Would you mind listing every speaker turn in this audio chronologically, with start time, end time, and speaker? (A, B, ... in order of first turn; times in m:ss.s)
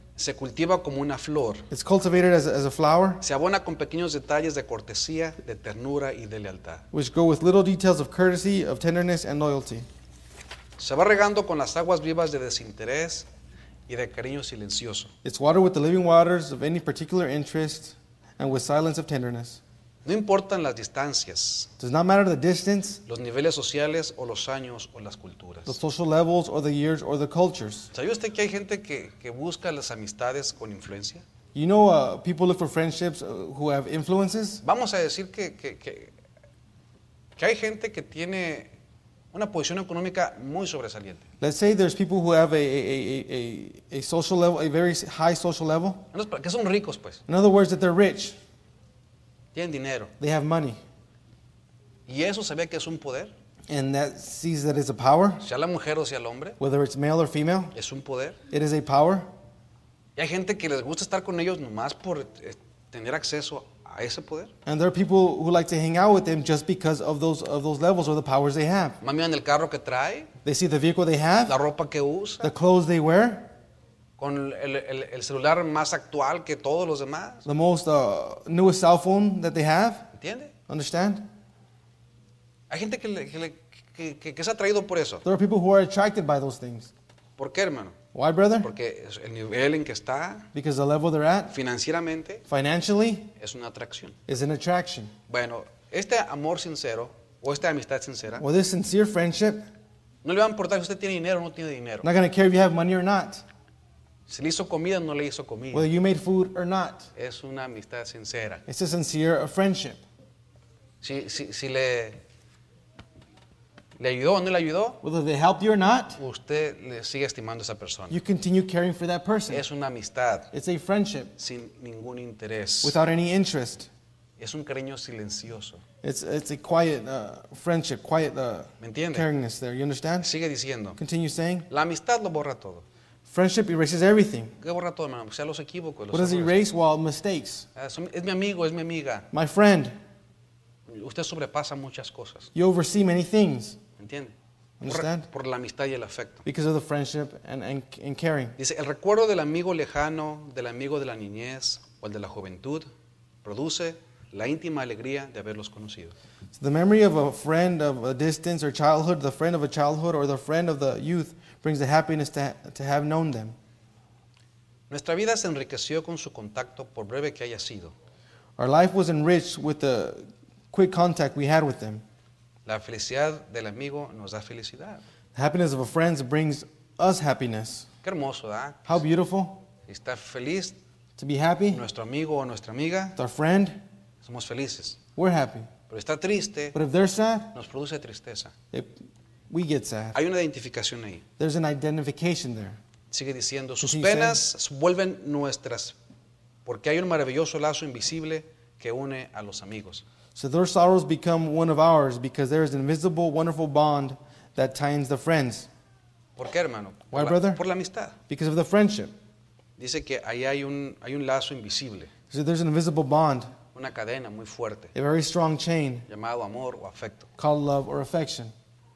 0:00.2-0:01.7 A
0:01.7-0:03.2 B
0:03.2-0:06.8 A
0:06.9-0:09.9 B
0:10.8-0:13.3 A
0:13.9-0:15.1 A
0:15.2-0:19.6 B
0:20.0-0:21.7 A
0:21.8-0:23.0 B
0:23.0-0:25.8 A
0:25.7-0:27.9 B
0:27.9-0:31.2 A
0:31.5-0:34.6 B
0:34.6-0:36.1 A
0:37.4-0:38.7 A
0:39.3-0:41.2 A
0:41.4-0:46.0 B
0:46.1-0:47.2 A
0:47.3-0:48.4 B
0:49.5-0:50.1 A
0:50.2-0:50.8 B
0:52.1-0:53.3 A
0:53.7-0:55.4 B
0:55.4-0:56.6 A
0:56.6-0:57.7 B
0:57.7-0:58.4 A
0:58.5-0:59.3 B
1:00.2-1:04.5 A
1:04.6-1:09.0 B
1:09.0-1:10.3 A
1:10.4-1:11.6 B
1:11.5-1:12.5 A
1:12.4-1:13.5 B
1:14.2-1:17.4 A
1:17.4-1:20.1 B
1:20.1-1:20.5 A
1:20.7-1:21.3 B
1:22.7-1:25.2 A
1:25.2-1:26.9 B
1:27.4-1:28.0 A
1:28.1-1:28.7 B
1:28.6-1:30.5 A
1:30.5-1:31.5 B
1:31.5-1:32.4 A
1:32.5-1:33.3 B
1:33.4-1:34.2 A
1:34.3-1:35.1 B
1:35.3-1:38.4 A
1:38.4-1:39.7 B
1:40.2-1:42.1 A
1:42.0-1:43.4 B
1:44.3-1:45.9 A
1:45.7-1:47.1 B
1:47.1-1:48.6 A
1:48.7-1:50.0 B
1:51.0-1:52.2 A
1:54.0-1:55.0 A
1:55.0-1:56.2 B
1:56.2-1:58.2 A
1:58.1-1:59.6 B
1:59.5-2:00.5 A
2:00.5-2:01.3 B
2:01.4-2:03.0 A
2:02.8-2:03.9 B
2:04.4-2:05.8 A
2:06.0-2:10.3 B
2:08.8-2:09.3 A
2:10.2-2:11.0 A
2:11.0-2:11.7 B
2:11.7-2:12.8 A
2:13.3-2:14.5 B
2:14.6-2:16.6 A
2:16.1-2:17.6 B
2:17.7-2:19.3 A
2:19.3-2:19.9 B
2:20.9-2:22.5 A
2:22.5-2:23.8 B
2:24.0-2:24.3 A
2:24.8-2:25.2 B
2:24.8-2:26.4 A
2:26.4-2:28.6 B
2:28.6-2:32.9 A
2:33.4-2:36.1 A
2:36.5-2:43.6 B
2:44.9-2:47.9 A
2:48.6-2:52.0 B
2:52.6-2:55.0 A
2:55.3-2:57.9 B
2:58.0-2:59.0 A
2:58.8-2:59.6 B
2:59.9-3:00.8 A
3:01.2-3:01.8 B
3:01.7-3:03.2 A
3:03.2-3:03.8 B
3:04.2-3:05.0 A
3:05.2-3:05.7 B
3:05.9-3:06.7 A
3:06.7-3:07.5 B
3:07.5-3:08.5 A
3:08.7-3:09.0 B
3:09.5-3:10.2 B
3:10.1-3:11.2 A
3:11.4-3:12.8 B
3:13.1-3:16.0 A
3:13.8-3:14.4 B
3:16.6-3:20.0 A
3:20.4-3:25.7 B
3:26.4-3:28.2 A
3:27.1-3:27.6 B
3:28.3-3:29.1 B
3:29.8-3:32.1 A
3:32.3-3:33.5 B
3:33.7-3:34.9 A
3:34.9-3:36.0 B
3:36.1-3:37.3 A
3:37.4-3:38.5 B